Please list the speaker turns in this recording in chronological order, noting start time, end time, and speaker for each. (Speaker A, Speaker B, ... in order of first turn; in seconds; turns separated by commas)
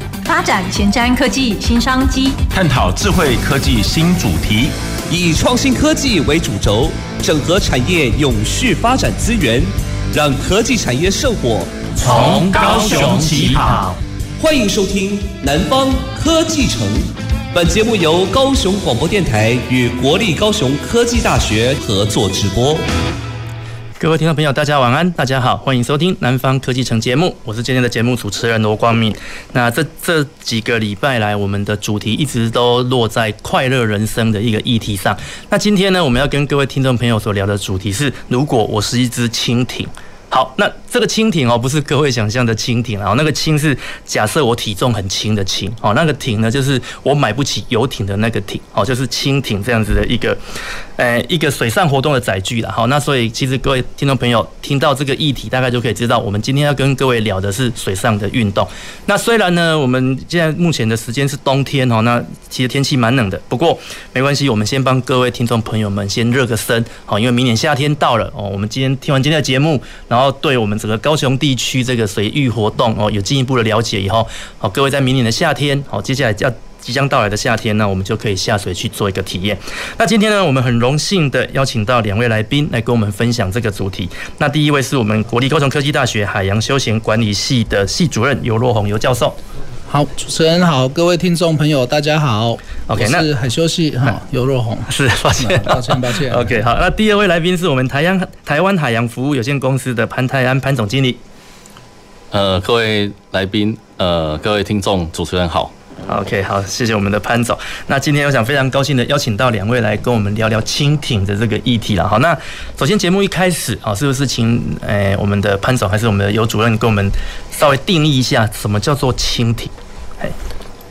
Speaker A: 0.2-2.4, Speaker B: 2.5-4.7, Speaker C: 5.1-11.7, Speaker D: 12.0-13.9, Speaker B: 12.0-13.9, Speaker C: 14.4-22.9, Speaker D: 24.0-50.4, Speaker D: 51.0-89.4, Speaker E: 89.9-96.5, Speaker D: 92.9-93.3, Speaker D: 94.9-101.2, Speaker F: 102.3-105.7, Speaker D: 106.1-120.3